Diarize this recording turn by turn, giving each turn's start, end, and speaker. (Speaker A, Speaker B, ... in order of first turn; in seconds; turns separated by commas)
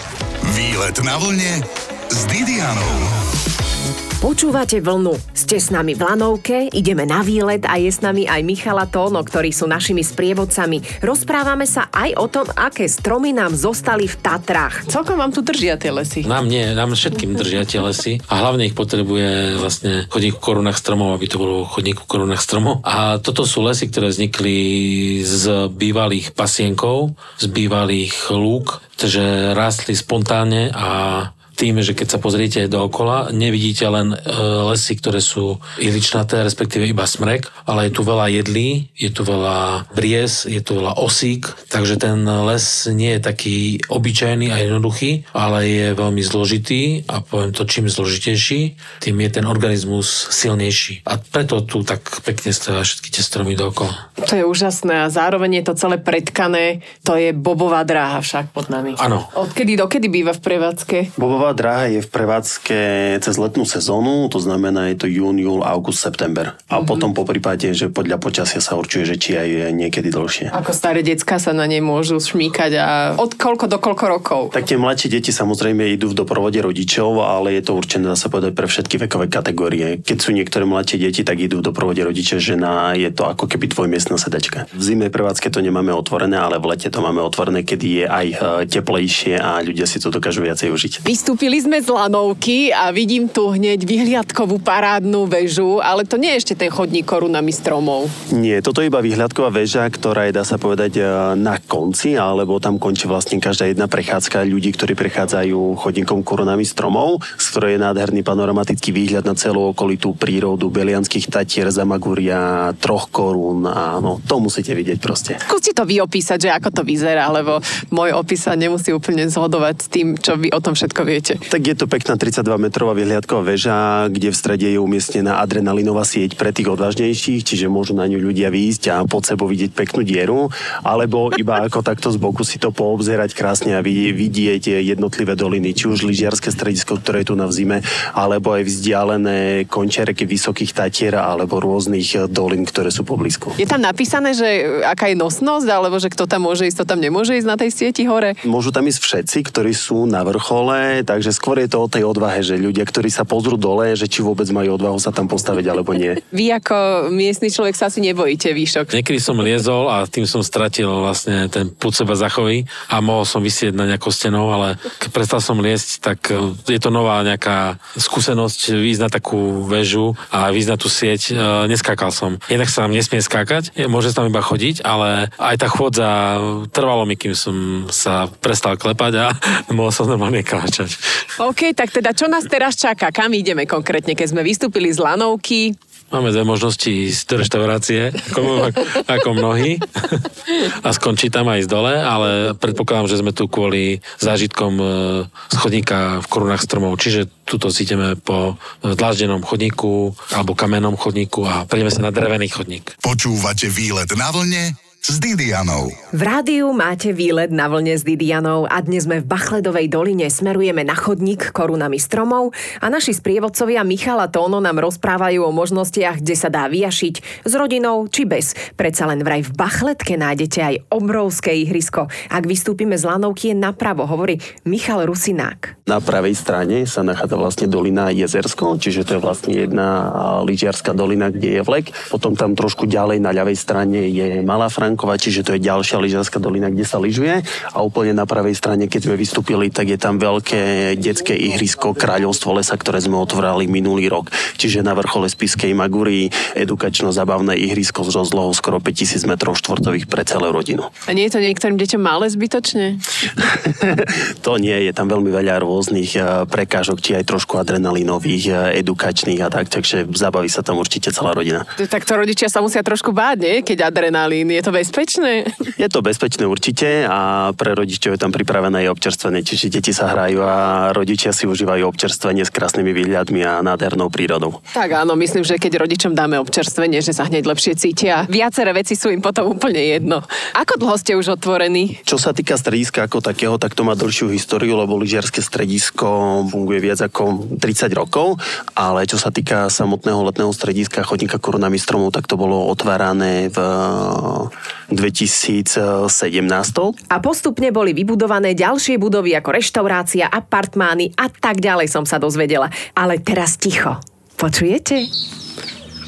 Speaker A: 0.5-1.6, Speaker A: 2.1-3.0, Speaker B: 4.2-14.9, Speaker C: 14.9-16.3, Speaker D: 16.2-53.9, Speaker C: 54.2-61.1, Speaker D: 59.0-59.3, Speaker E: 61.1-70.5, Speaker C: 70.5-74.5, Speaker E: 74.5-91.0, Speaker C: 91.0-98.1, Speaker E: 98.3-115.4, Speaker C: 115.5-121.4, Speaker E: 121.5-143.6, Speaker C: 143.6-148.4, Speaker E: 148.4-156.2, Speaker C: 156.3-158.9, Speaker D: 158.9-181.0, Speaker C: 181.4-185.7, Speaker D: 186.1-202.9, Speaker A: 203.0-205.9, Speaker B: 206.1-225.7, Speaker E: 225.9-250.9, Speaker C: 251.1-253.0, Speaker E: 253.7-261.6, Speaker C: 261.8-265.5, Speaker E: 265.8-274.6, Speaker C: 274.7-282.0, Speaker E: 282.1-296.9, Speaker B: 297.1-305.1